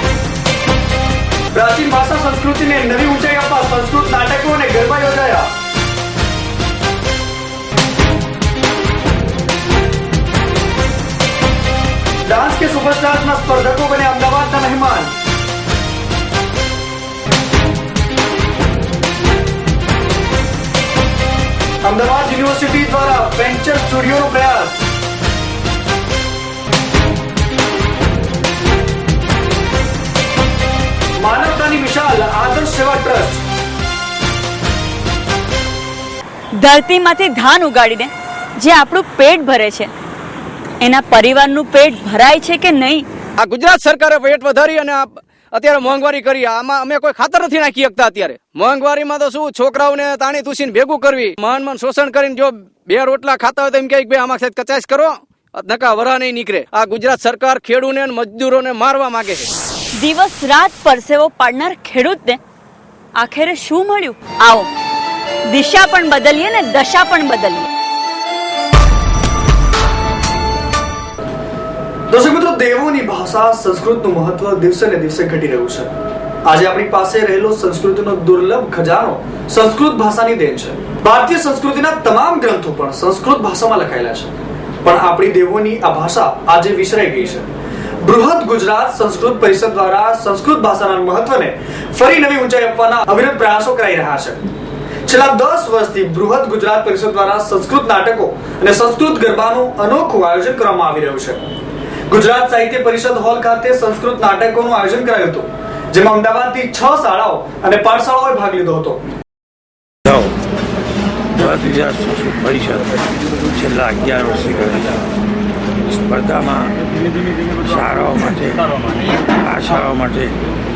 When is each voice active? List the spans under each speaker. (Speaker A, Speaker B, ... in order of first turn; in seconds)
Speaker A: 1.5-5.5, 12.2-15.2, 21.8-24.9, 31.2-33.4, 72.1-75.9, 76.5-84.3, 84.8-87.5, 88.0-94.4, 95.1-101.4, 102.1-109.0
Speaker B: 36.6-39.9, 40.8-43.0, 60.0-62.4, 63.2-64.7, 65.5-67.7
Speaker C: 43.4-59.5
Speaker D: 110.1-110.3, 111.4-115.0, 115.8-120.4